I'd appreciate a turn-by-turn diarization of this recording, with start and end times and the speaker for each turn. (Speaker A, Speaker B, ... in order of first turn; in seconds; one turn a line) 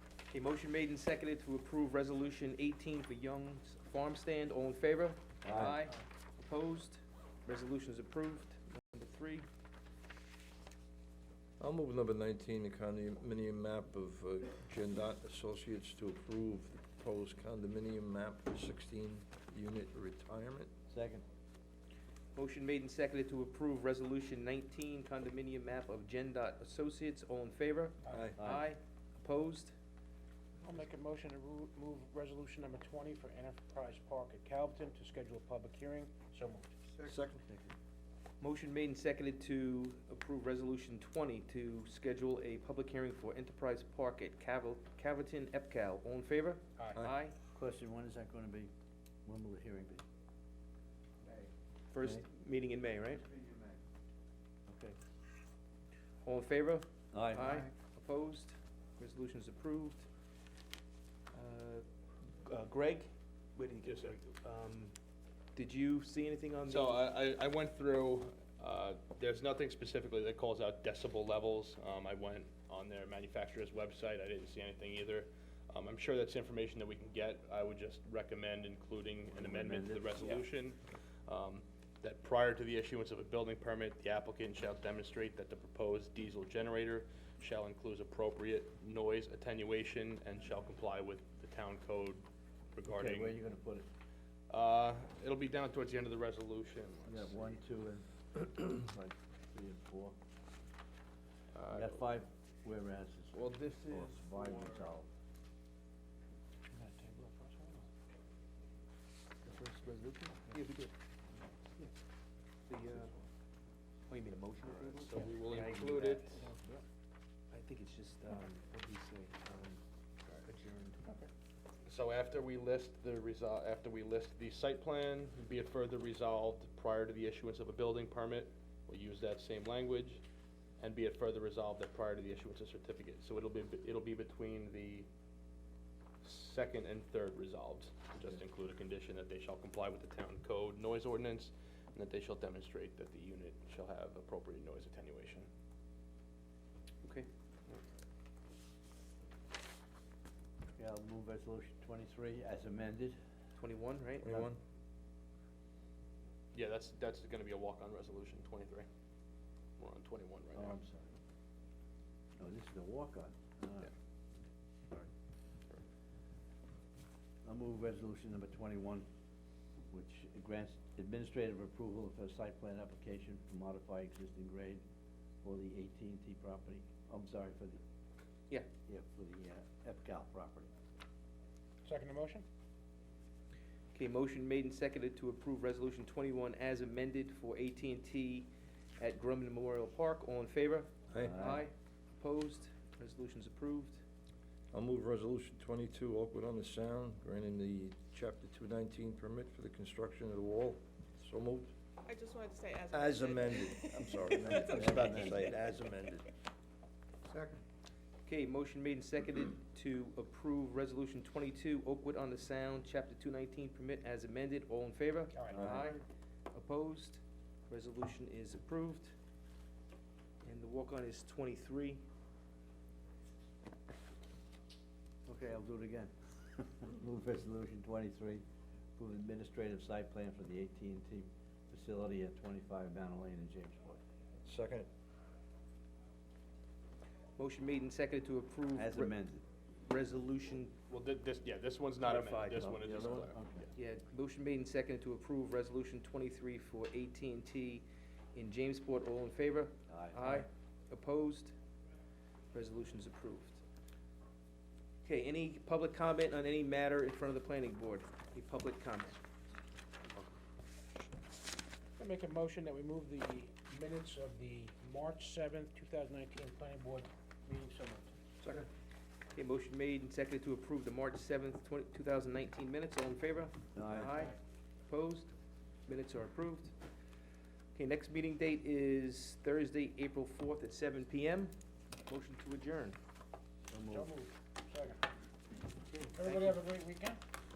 Speaker A: 0.3-9.5
Speaker B: 5.4-5.8
Speaker C: 11.6-20.7
Speaker B: 20.9-21.2
Speaker A: 22.3-29.7
Speaker C: 28.1-28.4
Speaker B: 28.4-28.7
Speaker D: 30.6-36.9
Speaker C: 37.0-37.4
Speaker B: 37.4-37.7
Speaker A: 38.4-47.4
Speaker B: 47.5-48.7
Speaker B: 49.3-50.0
Speaker A: 51.9-53.2
Speaker B: 53.2-53.8
Speaker B: 54.7-55.0
Speaker A: 56.2-60.1
Speaker B: 57.1-57.7
Speaker A: 61.3-61.9
Speaker A: 62.4-64.9
Speaker E: 63.8-64.2
Speaker A: 65.5-67.0
Speaker E: 66.7-92.2
Speaker B: 79.3-80.4
Speaker E: 92.8-93.4
Speaker B: 92.9-93.9
Speaker E: 94.5-97.6
Speaker B: 97.1-100.2
Speaker E: 101.5-102.0
Speaker B: 101.7-105.1
Speaker D: 106.7-107.8
Speaker A: 109.5-110.9
Speaker A: 112.7-113.1
Speaker A: 114.1-116.6
Speaker E: 114.9-116.5
Speaker A: 117.5-121.3
Speaker E: 121.9-130.2
Speaker E: 130.8-135.1
Speaker E: 136.2-145.5
Speaker A: 147.0-147.3
Speaker B: 150.8-153.2
Speaker A: 153.6-154.6
Speaker E: 156.5-158.9
Speaker E: 159.8-160.8
Speaker B: 160.5-161.1
Speaker B: 162.4-163.9
Speaker B: 167.4-169.1
Speaker B: 169.9-174.8
Speaker B: 175.4-177.8
Speaker B: 178.9-180.7
Speaker D: 181.8-182.5
Speaker A: 183.9-194.0
Speaker B: 191.2-191.7
Speaker C: 194.7-201.7
Speaker F: 202.1-204.6
Speaker C: 202.9-206.3
Speaker B: 204.3-205.4
Speaker A: 208.2-219.2
Speaker D: 215.3-215.9
Speaker A: 220.4-222.0
Speaker B: 225.3-228.4
Speaker B: 229.0-234.0
Speaker C: 234.4-234.9
Speaker A: 237.4-239.1
Speaker B: 238.8-239.4
Speaker A: 239.9-240.8
Speaker E: 240.9-243.7
Speaker B: 242.0-243.7
Speaker A: 243.8-247.8
Speaker A: 248.3-251.6
Speaker B: 249.9-250.5
Speaker A: 252.5-253.6
Speaker A: 255.0-259.2
Speaker D: 262.0-268.1
Speaker A: 269.4-274.4
Speaker B: 273.8-274.3
Speaker A: 274.9-275.3
Speaker A: 275.9-276.7
Speaker A: 277.8-281.5
Speaker A: 282.1-283.0
Speaker B: 283.7-284.1
Speaker D: 283.9-285.0
Speaker A: 285.9-286.6
Speaker D: 286.1-287.2